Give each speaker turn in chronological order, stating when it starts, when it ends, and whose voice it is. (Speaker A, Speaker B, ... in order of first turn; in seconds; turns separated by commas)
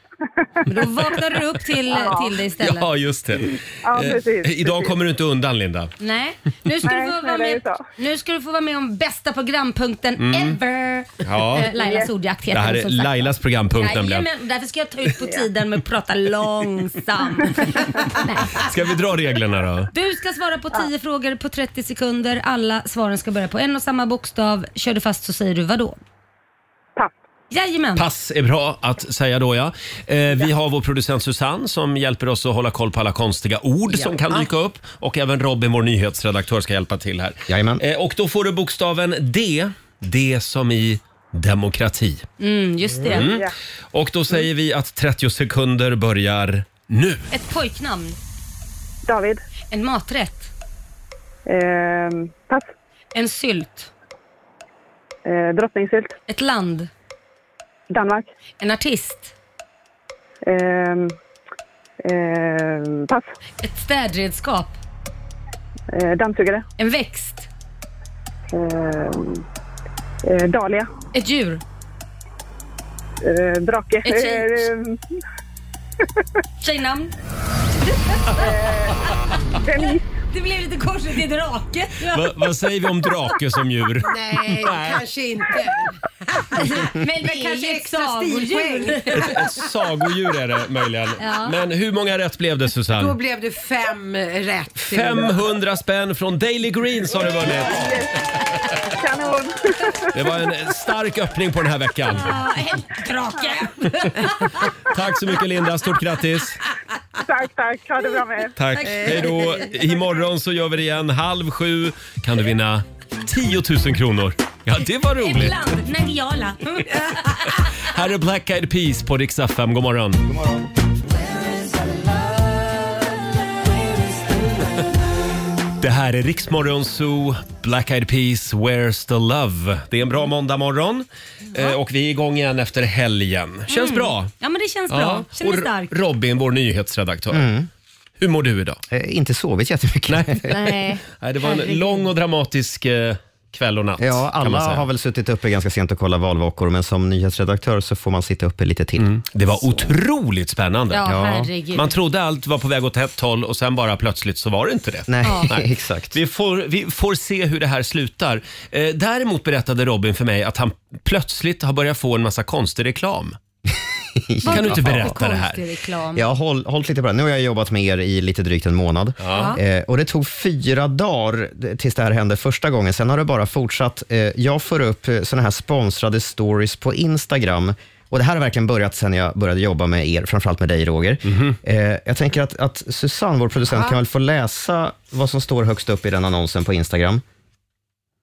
Speaker A: 0.7-2.9, Speaker B: 1.9-2.3, Speaker C: 2.6-5.9, Speaker B: 3.9-4.9, Speaker A: 6.0-18.7, Speaker B: 6.8-7.8, Speaker C: 10.2-10.6, Speaker C: 11.2-11.7, Speaker B: 11.8-12.1, Speaker C: 12.5-14.3, Speaker C: 18.5-19.9, Speaker A: 19.9-26.0, Speaker A: 27.5-28.1, Speaker C: 28.0-42.3, Speaker D: 37.5-37.8, Speaker A: 42.4-43.3, Speaker C: 43.1-47.3, Speaker A: 47.3-48.2, Speaker B: 49.1-49.4, Speaker A: 49.7-50.5, Speaker B: 51.5-52.7, Speaker A: 53.1-53.9, Speaker B: 55.2-56.1, Speaker A: 56.3-56.9, Speaker B: 57.9-58.3, Speaker A: 58.6-59.3, Speaker B: 60.5-61.2, Speaker B: 62.0-63.3, Speaker A: 63.6-64.8, Speaker B: 65.9-66.7, Speaker A: 66.8-67.5, Speaker B: 68.5-69.4, Speaker B: 70.3-70.9, Speaker A: 71.1-71.6, Speaker B: 73.2-75.0, Speaker A: 74.0-74.7, Speaker A: 76.6-77.1, Speaker B: 78.3-80.0, Speaker A: 79.8-82.5, Speaker C: 82.0-85.0, Speaker E: 84.1-89.5, Speaker A: 86.6-89.4, Speaker C: 89.1-93.2, Speaker A: 91.2-91.6, Speaker E: 92.9-95.3, Speaker C: 94.8-98.1, Speaker B: 97.5-98.1, Speaker B: 98.9-100.0, Speaker C: 100.1-102.3, Speaker A: 102.1-104.7, Speaker C: 104.9-106.6, Speaker B: 107.3-108.5, Speaker C: 108.6-115.7, Speaker A: 108.8-109.7, Speaker A: 115.2-117.7, Speaker C: 117.4-120.3, Speaker C: 125.8-134.3, Speaker A: 133.7-135.9, Speaker C: 134.9-137.5, Speaker D: 137.3-137.7, Speaker C: 138.2-138.8, Speaker D: 138.9-140.8, Speaker C: 140.1-144.8, Speaker D: 144.0-149.9, Speaker C: 149.0-151.2, Speaker A: 150.9-151.9, Speaker D: 151.1-151.5, Speaker C: 151.7-163.4, Speaker D: 155.1-156.2, Speaker A: 155.2-155.5, Speaker D: 164.2-165.2, Speaker A: 164.4-166.2, Speaker C: 164.5-165.6, Speaker D: 166.1-187.2, Speaker C: 169.2-169.5, Speaker A: 169.3-169.6, Speaker C: 181.3-181.6, Speaker E: 183.7-184.0